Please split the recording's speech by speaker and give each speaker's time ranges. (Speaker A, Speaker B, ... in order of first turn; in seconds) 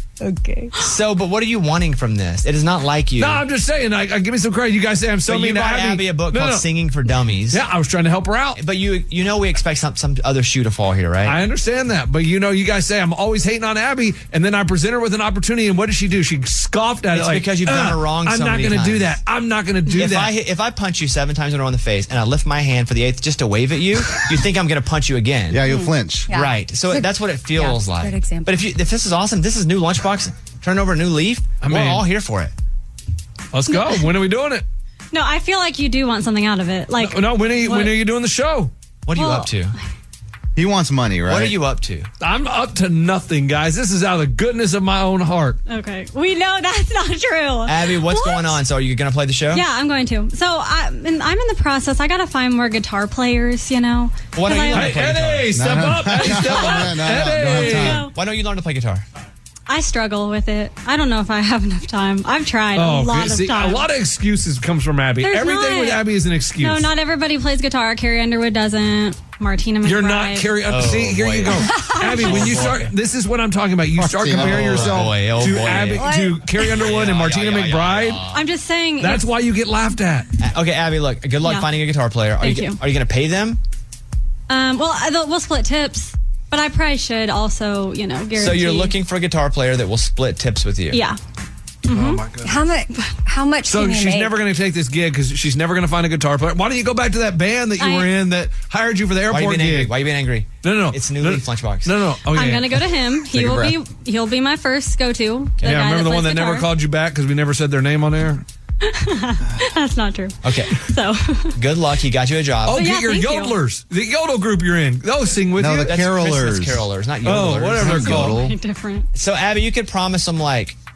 Speaker A: 0.2-0.8, 25.6-28.6, 76.0-76.5, 92.4-94.3
Speaker B: 0.8-3.4, 5.3-7.6, 8.6-11.4, 17.1-19.2, 19.9-25.6, 26.3-32.5, 39.1-39.8, 41.3-42.1, 47.7-49.6, 54.3-55.5, 58.0-59.0, 70.7-72.9, 74.3-78.5, 80.4-83.6, 88.4-91.0, 99.3-101.9, 110.4-110.8, 111.6-112.8, 115.8-118.2, 119.1-120.8
Speaker C: 3.2-6.7, 7.5-8.6, 11.3-20.3, 31.6-32.0, 33.5-34.6, 37.0-38.7, 42.2-45.6, 54.7-58.0, 62.7-66.9, 69.8-78.2, 79.0-80.3, 91.9-92.7, 93.7-99.9, 100.6-102.9, 105.6-108.5, 112.7-115.9, 117.2-118.4
Speaker D: 25.5-26.3, 40.6-41.6, 55.5-58.0, 74.0-75.1, 103.3-103.8, 115.6-116.8, 117.8-118.6
Speaker E: 33.7-34.0, 35.1-38.0, 39.2-39.5, 45.7-48.6, 49.5-55.0, 56.5-56.9, 57.5-58.1, 59.7-63.9, 65.2-66.0, 66.6-70.5, 71.9-72.6, 78.3-79.3, 81.4-81.7, 82.4-82.8, 84.5-88.9, 90.9-91.2, 91.9-92.2, 97.8-98.1, 102.3-106.7, 108.8-111.6, 112.7-113.6, 118.1-119.1